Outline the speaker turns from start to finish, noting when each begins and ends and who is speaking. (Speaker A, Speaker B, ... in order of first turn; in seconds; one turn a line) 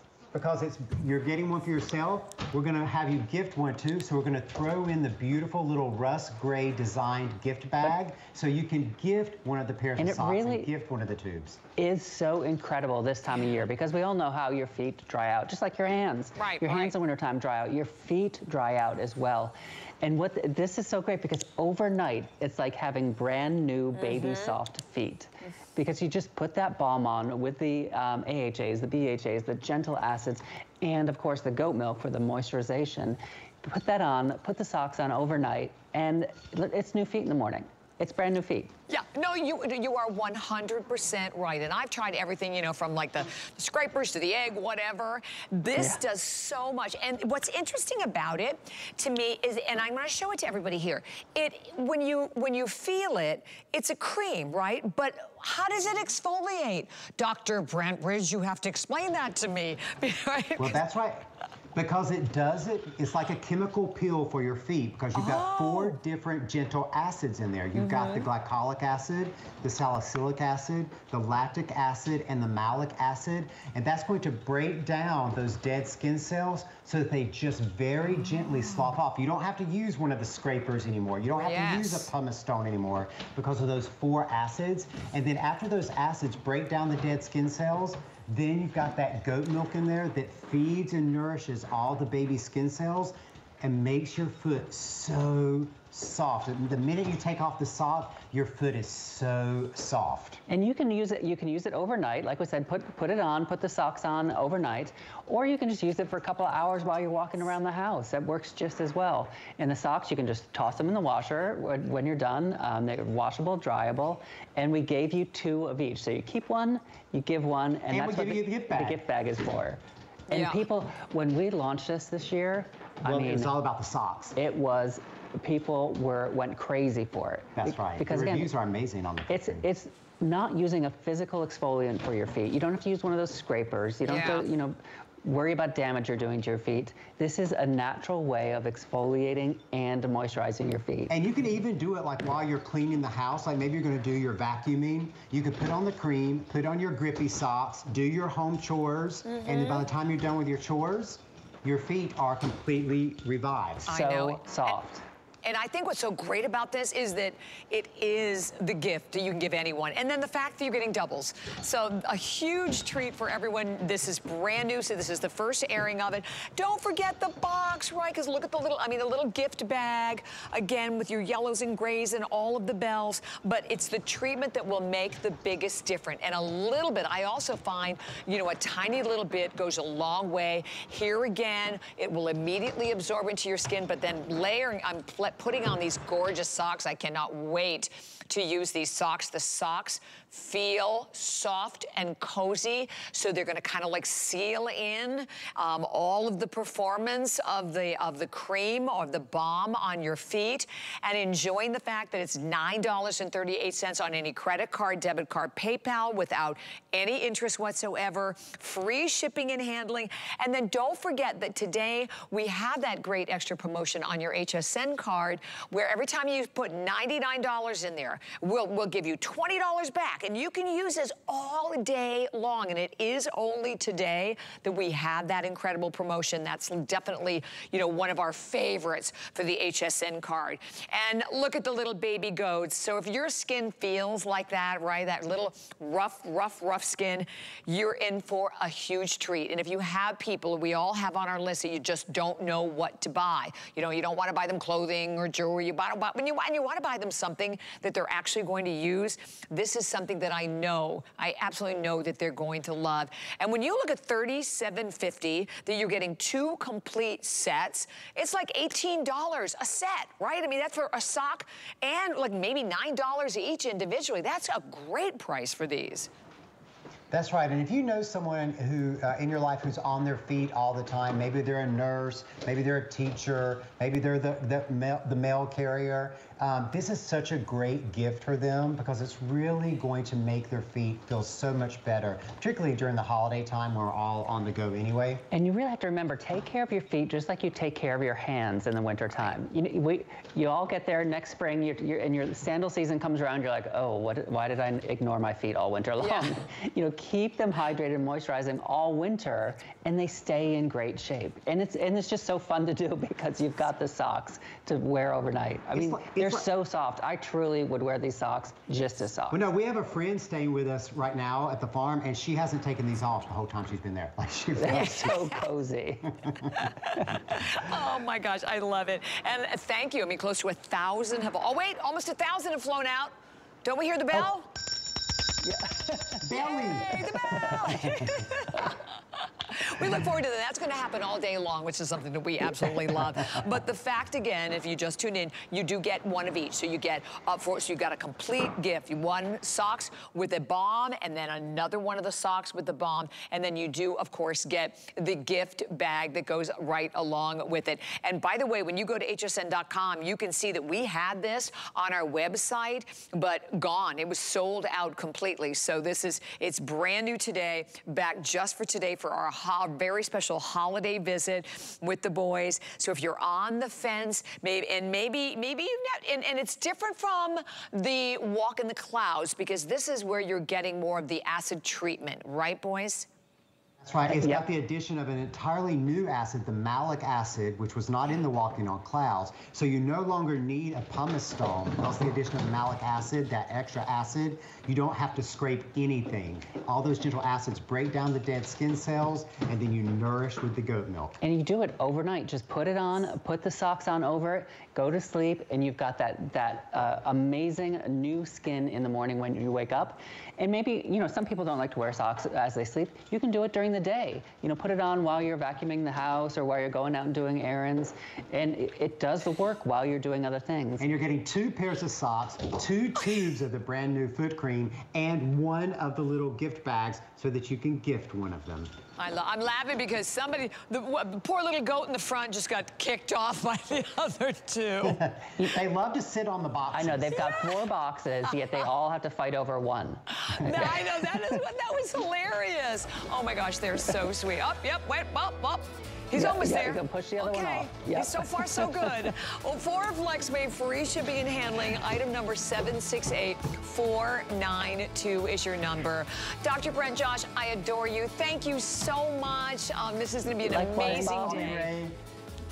Speaker A: 0.3-11.6
Speaker B: 10.0-10.7
Speaker B: 11.8-38.7
Speaker C: 13.3-13.6
Speaker C: 16.4-16.9
Speaker C: 23.9-24.6
Speaker C: 38.9-60.8
Speaker A: 60.6-100.4
Speaker C: 65.1-66.0
Speaker C: 67.7-68.3
Speaker C: 81.3-82.1
Speaker B: 100.5-123.5
Speaker A: 117.9-119.0
Speaker C: 120.3-120.6
Speaker A: 123.0-124.4
Speaker B: 124.4-128.5
Speaker A: 127.6-129.7
Speaker B: 129.3-141.1
Speaker C: 134.1-134.4
Speaker A: 141.1-153.9
Speaker C: 149.3-149.9
Speaker C: 153.9-154.8
Speaker B: 153.9-155.0
Speaker C: 155.4-266.1
Speaker A: 267.1-285.2
Speaker B: 285.3-309.4
Speaker C: 296.0-296.3
Speaker A: 305.7-306.5
Speaker A: 309.3-315.2
Speaker B: 314.6-316.2
Speaker C: 314.7-315.4
Speaker A: 316.2-316.5
Speaker C: 316.6-323.1
Speaker C: 323.6-324.5
Speaker B: 325.4-326.2
Speaker A: 326.2-328.2
Speaker C: 326.4-373.1
Speaker A: 373.8-391.2
Speaker B: 374.1-374.4
Speaker B: 391.2-410.9
Speaker A: 410.8-418.7
Speaker C: 419.0-425.0
Speaker A: 424.8-427.4
Speaker B: 426.7-430.9
Speaker C: 430.2-451.7
Speaker B: 436.1-439.1
Speaker B: 450.4-451.6
Speaker A: 450.8-452.0